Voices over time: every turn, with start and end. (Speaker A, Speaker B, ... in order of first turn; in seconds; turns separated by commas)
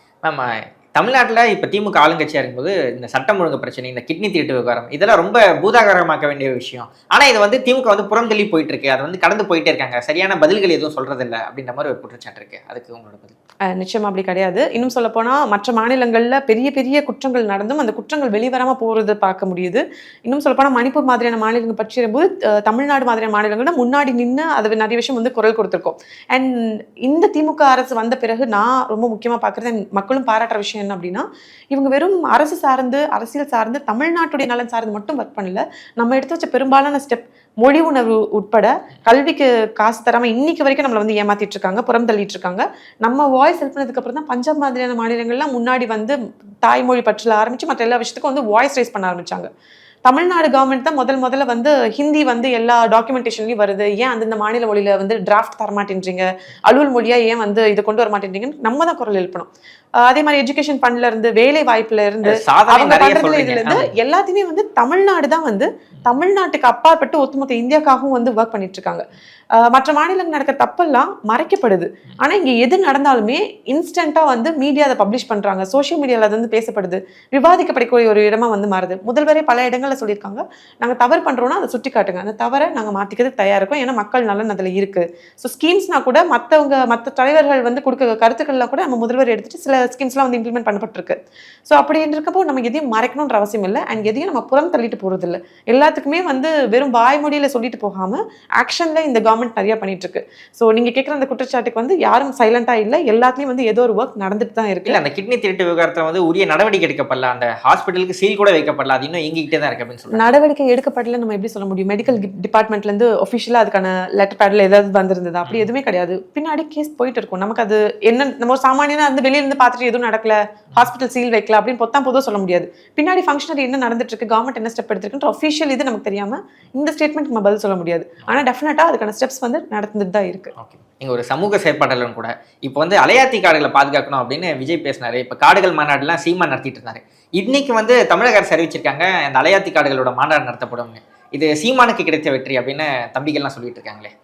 Speaker A: 0.2-13.4, Speaker B: 13.7-49.5, Speaker B: 50.1-59.5, Speaker B: 60.0-69.0, Speaker A: 62.2-63.9, Speaker B: 69.6-91.2, Speaker B: 91.7-105.0, Speaker A: 104.9-110.3, Speaker B: 110.1-130.5, Speaker A: 130.6-144.1